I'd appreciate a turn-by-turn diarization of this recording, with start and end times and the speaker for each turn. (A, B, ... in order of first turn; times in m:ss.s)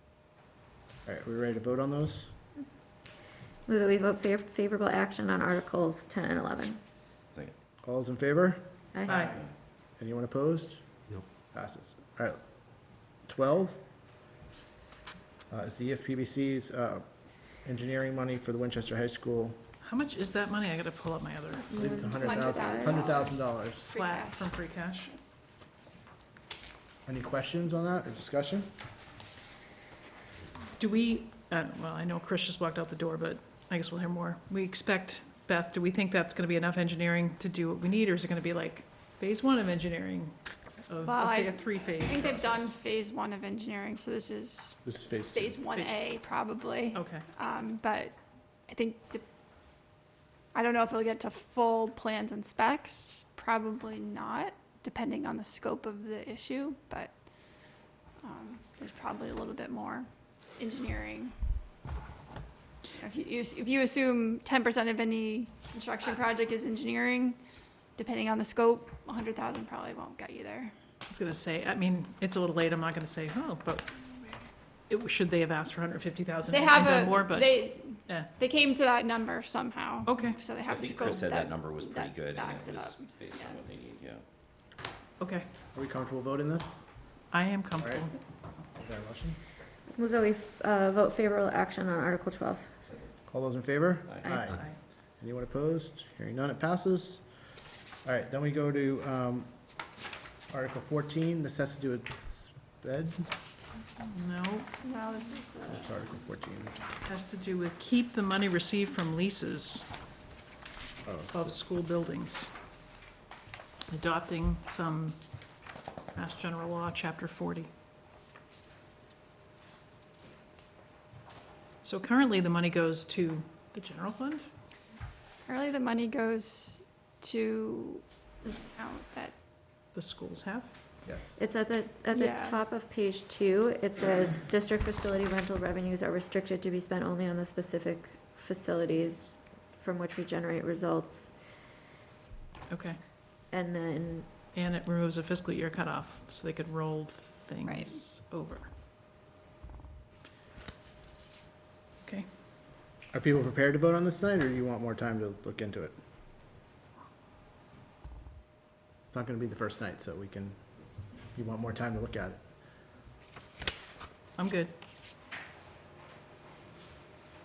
0:01.0-0:02.3 A
0:03.6-0:06.8 B
0:07.8-0:09.4 A
0:08.9-0:09.3 B
0:09.1-0:09.4 C
0:10.0-0:10.8 A
0:11.5-0:12.4 A
0:13.2-0:13.8 A
0:15.5-0:17.0 A
0:17.6-0:19.6 A
0:19.8-0:21.7 C
0:21.6-0:23.1 B
0:21.8-0:23.9 A
0:22.2-0:24.5 D
0:23.9-0:25.1 C
0:27.0-0:28.7 A
0:30.8-0:42.7 C
0:41.0-0:44.8 D
0:44.8-0:45.6 A
0:45.3-0:48.2 D
0:45.7-0:46.0 C
0:46.9-0:47.2 C
0:48.7-0:49.2 D
0:50.5-0:57.1 D
0:58.2-1:01.3 D
1:03.0-1:07.4 D
1:08.0-1:10.7 D
1:11.1-1:14.4 C
1:14.9-1:18.3 C
1:16.5-1:23.6 D
1:20.0-1:20.4 C
1:20.6-1:24.2 E
1:25.2-1:25.5 C
1:25.7-1:26.8 A
1:27.3-1:28.1 C
1:27.8-1:28.1 A
1:28.8-1:29.4 A
1:29.9-1:32.8 B
1:33.3-1:34.7 A
1:34.3-1:34.8 C
1:35.2-1:37.2 A
1:38.0-1:39.5 A
1:40.5-1:43.3 A
1:44.0-1:44.7 C
1:44.8-1:45.8 D
1:45.6-1:46.8 A
1:47.0-1:49.9 C
1:51.0-1:51.4 A
1:51.3-1:52.5 C
1:53.9-1:55.2 C
1:56.1-1:57.7 C
2:01.8-2:04.5 C
2:05.4-2:09.4 D
2:08.4-2:08.8 B
2:09.9-2:10.7 C
2:11.0-2:11.4 A
2:11.4-2:21.3 B
2:12.1-2:12.6 D
2:22.7-2:23.0 C
2:23.5-2:24.3 B
2:24.5-2:28.7 C
2:27.6-2:28.0 D
2:33.1-2:36.0 A
2:39.1-2:40.6 A
2:41.3-2:42.4 A
2:44.4-2:44.7 C